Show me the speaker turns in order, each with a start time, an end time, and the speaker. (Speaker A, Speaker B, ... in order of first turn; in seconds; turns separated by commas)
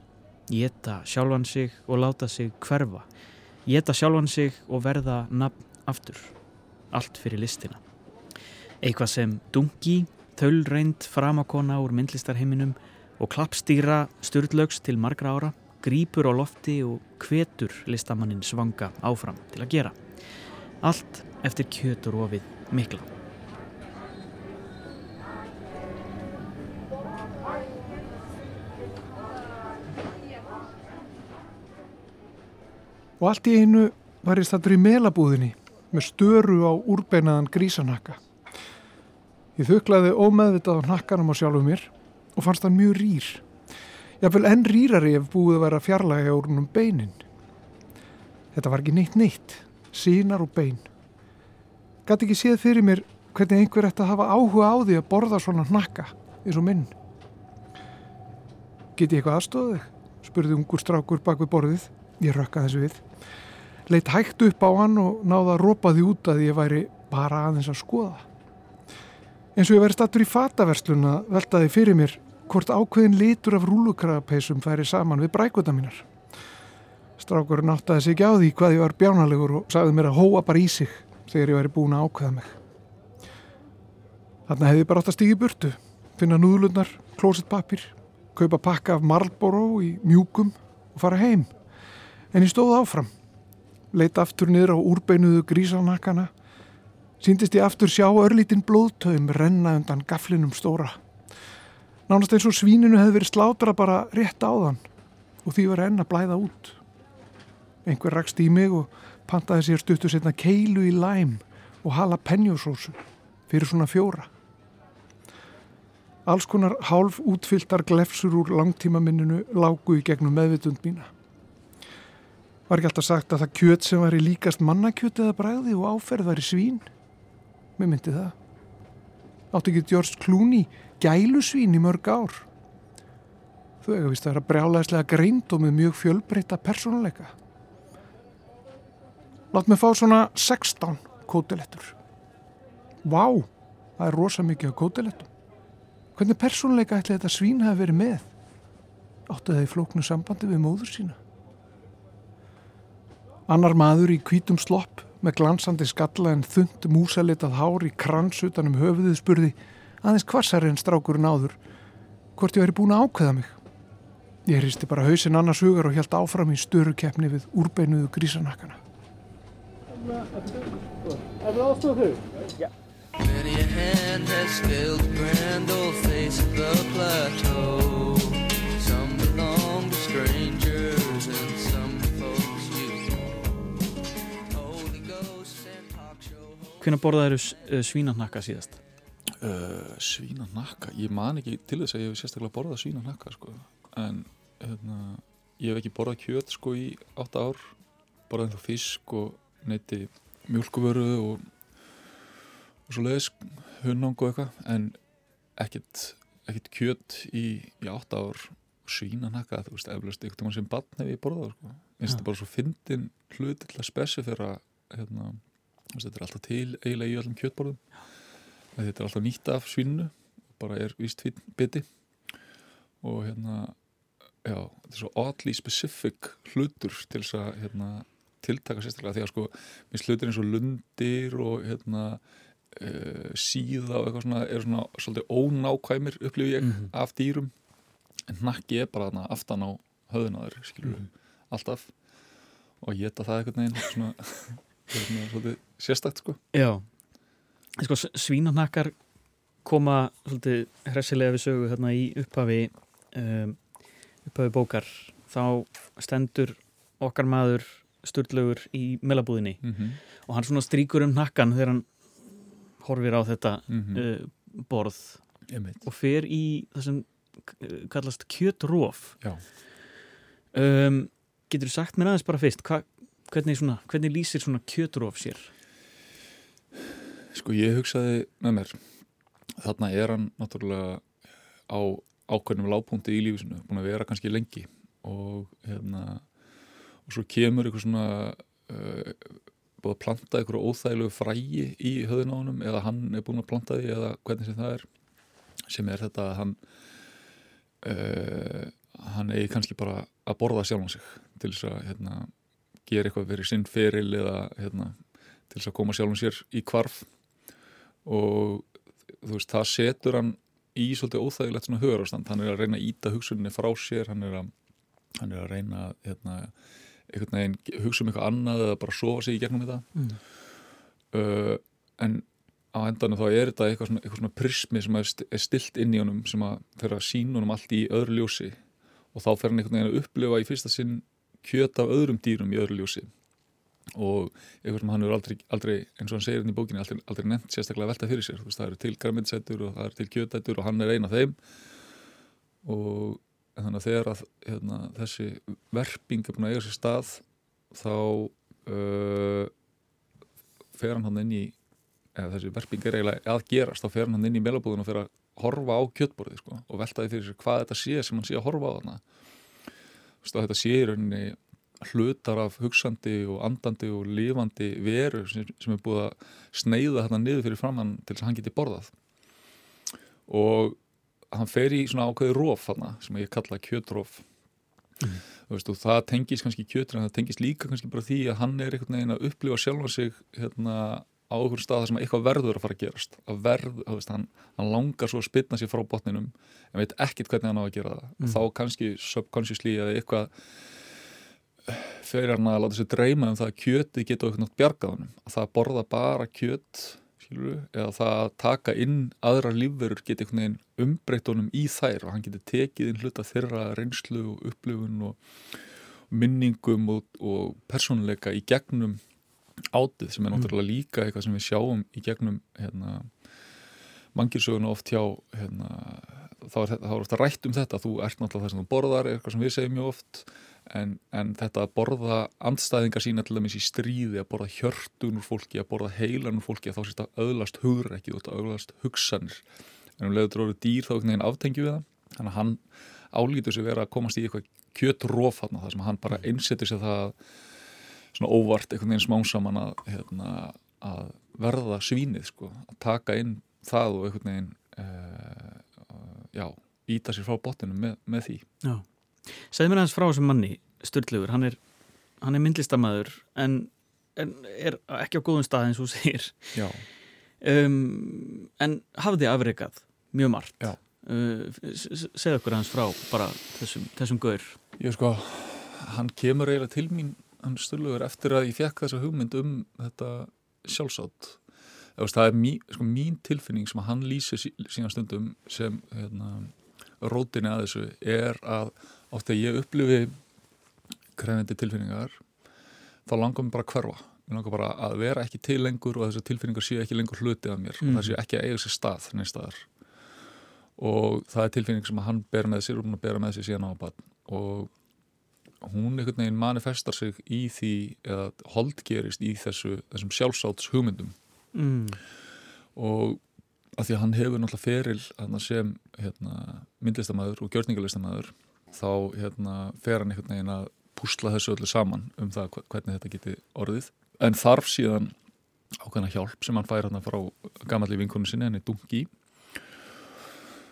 Speaker A: 0.5-3.1, Speaker A: 3.7-6.3, Speaker A: 6.9-7.8, Speaker A: 8.8-20.0, Speaker A: 20.8-23.1, Speaker B: 33.2-38.2, Speaker B: 39.6-43.5, Speaker B: 44.2-47.2, Speaker B: 48.5-50.9, Speaker B: 52.1-56.9, Speaker B: 59.0-63.0, Speaker B: 63.9-68.3, Speaker B: 69.6-76.1, Speaker B: 77.2-82.6, Speaker B: 84.5-91.5, Speaker B: 92.3-93.1, Speaker B: 93.9-96.3, Speaker B: 97.2-101.0, Speaker B: 102.1-104.8, Speaker B: 105.4-106.8, Speaker B: 107.9-114.3, Speaker B: 116.3-121.1, Speaker B: 122.7-126.9, Speaker B: 127.8-128.3, Speaker B: 129.5-132.5, Speaker B: 133.8-137.3, Speaker B: 139.5-141.9, Speaker B: 143.0-145.3, Speaker B: 146.2-148.3, Speaker B: 149.3-151.2, Speaker B: 153.5-161.6, Speaker B: 162.4-163.6, Speaker B: 164.5-168.8, Speaker C: 173.2-183.0, Speaker C: 184.6-186.2, Speaker A: 186.8-188.8, Speaker D: 189.4-197.7, Speaker D: 198.3-201.4, Speaker D: 202.9-205.0, Speaker D: 205.6-215.4, Speaker D: 215.9-217.8, Speaker D: 218.8-221.8, Speaker D: 223.0-223.8, Speaker D: 224.4-232.2, Speaker D: 232.7-237.5, Speaker A: 236.6-236.9, Speaker D: 238.3-241.9, Speaker D: 242.8-246.4, Speaker A: 246.5-246.9, Speaker A: 247.8-248.9, Speaker A: 249.6-253.6, Speaker A: 254.3-259.6, Speaker D: 259.6-260.0, Speaker A: 260.2-261.9, Speaker A: 262.8-265.2, Speaker D: 263.7-264.0, Speaker D: 265.5-265.8, Speaker A: 265.8-269.2, Speaker A: 270.5-275.5, Speaker D: 277.3-278.8, Speaker D: 279.6-281.0, Speaker D: 281.7-286.2, Speaker D: 287.1-294.9, Speaker D: 295.7-296.6, Speaker D: 297.8-302.3, Speaker D: 302.9-305.0, Speaker D: 305.5-307.1, Speaker D: 308.1-308.7, Speaker D: 309.2-314.5, Speaker D: 315.2-316.5, Speaker D: 317.1-319.9, Speaker D: 321.1-328.6, Speaker D: 329.1-333.1, Speaker D: 333.9-341.4, Speaker D: 342.6-349.5, Speaker D: 350.8-351.5, Speaker D: 352.2-359.0, Speaker D: 360.2-368.9, Speaker D: 370.3-370.8, Speaker D: 371.3-374.2, Speaker D: 375.5-390.3, Speaker D: 391.7-405.2, Speaker D: 406.1-409.0, Speaker D: 409.7-413.1, Speaker D: 414.1-429.4, Speaker D: 430.0-432.6, Speaker D: 433.1-437.1, Speaker D: 438.1-448.4, Speaker A: 448.6-451.6, Speaker A: 452.2-456.6, Speaker D: 456.6-456.9, Speaker A: 457.4-464.6, Speaker D: 464.8-471.4, Speaker D: 472.0-480.1, Speaker D: 481.2-482.2, Speaker D: 483.1-489.7, Speaker A: 487.8-488.2, Speaker D: 490.8-494.7, Speaker D: 495.6-501.1, Speaker A: 501.5-502.0, Speaker D: 502.8-503.2, Speaker D: 503.8-515.1, Speaker D: 515.8-519.1